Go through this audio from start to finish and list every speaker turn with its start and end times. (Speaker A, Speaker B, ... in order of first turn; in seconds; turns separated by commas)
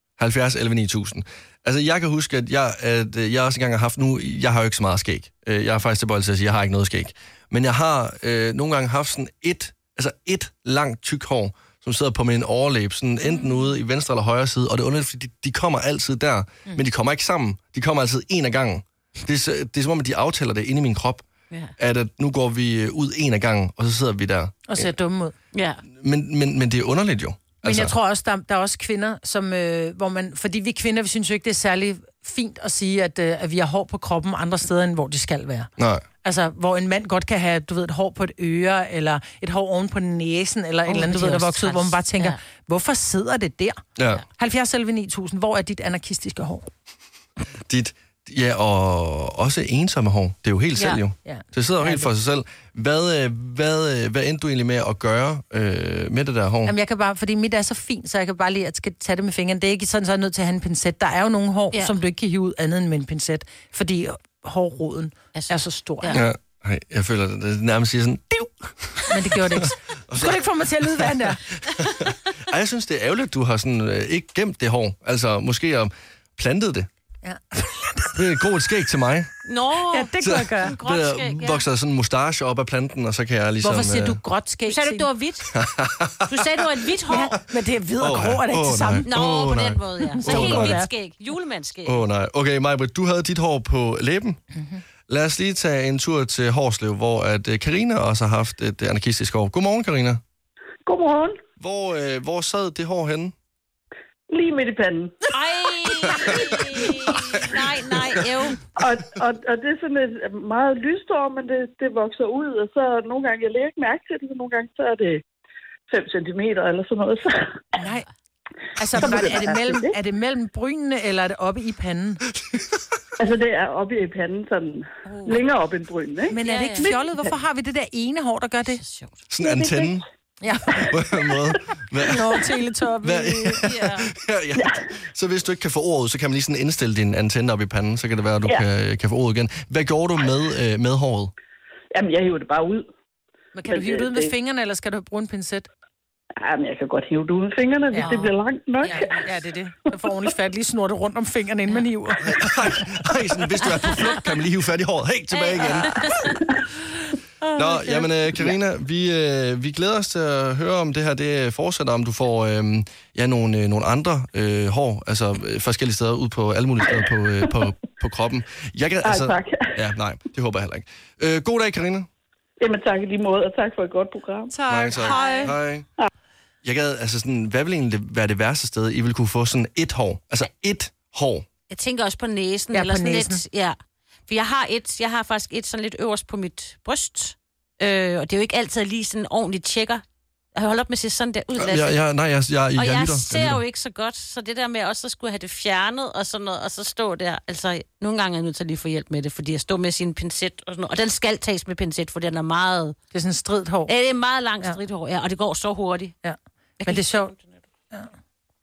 Speaker A: 0.2-21.2, Speaker A: 21.8-24.9, Speaker B: 24.7-25.3, Speaker C: 25.5-25.8, Speaker A: 25.9-27.9, Speaker B: 27.6-35.7, Speaker A: 35.8-36.0, Speaker B: 36.2-43.8, Speaker C: 40.9-42.4, Speaker A: 44.0-44.2, Speaker B: 44.4-46.7, Speaker A: 47.7-56.7, Speaker B: 51.2-52.0, Speaker B: 56.6-66.2, Speaker C: 65.3-66.2, Speaker A: 66.1-76.9, Speaker B: 69.1-71.4, Speaker B: 77.2-78.1, Speaker A: 78.1-79.3, Speaker C: 79.4-81.6, Speaker B: 79.9-80.8, Speaker A: 80.2-84.2, Speaker B: 83.6-85.1, Speaker C: 84.7-85.5, Speaker A: 85.5-86.4, Speaker C: 86.3-87.3, Speaker B: 87.1-89.1, Speaker A: 88.0-90.8, Speaker C: 89.0-92.0, Speaker B: 90.2-90.9, Speaker A: 91.8-94.4, Speaker A: 95.1-100.2, Speaker D: 100.8-101.4, Speaker A: 101.6-103.3, Speaker D: 104.3-105.1, Speaker C: 105.3-108.6, Speaker D: 108.8-115.2, Speaker D: 115.9-117.6, Speaker B: 117.8-118.1, Speaker B: 118.8-122.2, Speaker D: 118.9-119.9, Speaker D: 123.2-127.1, Speaker C: 125.1-125.3, Speaker B: 126.3-128.8, Speaker C: 126.4-126.9, Speaker C: 128.7-129.2, Speaker A: 129.3-130.0, Speaker D: 129.4-130.0, Speaker B: 130.4-130.9, Speaker A: 130.9-132.3, Speaker B: 132.0-133.7, Speaker A: 133.0-141.3, Speaker C: 133.6-134.1, Speaker D: 134.6-134.8, Speaker D: 141.9-142.9, Speaker B: 143.5-145.7, Speaker D: 143.7-144.3, Speaker D: 146.4-149.2, Speaker B: 147.9-148.2, Speaker C: 148.0-148.3, Speaker C: 148.8-149.2, Speaker B: 148.8-152.3, Speaker A: 152.2-156.1, Speaker C: 155.3-156.3, Speaker A: 157.6-172.1, Speaker B: 157.6-158.0, Speaker D: 169.0-169.7, Speaker D: 172.6-174.5, Speaker B: 174.5-175.5, Speaker A: 174.7-175.8, Speaker C: 175.0-175.5, Speaker A: 176.6-181.4, Speaker C: 181.7-183.8, Speaker B: 182.7-183.4, Speaker C: 184.3-190.0, Speaker C: 190.5-191.9, Speaker A: 191.6-193.6, Speaker C: 192.7-203.0, Speaker B: 203.1-203.9, Speaker C: 203.9-206.1, Speaker B: 206.2-207.3, Speaker C: 206.8-207.6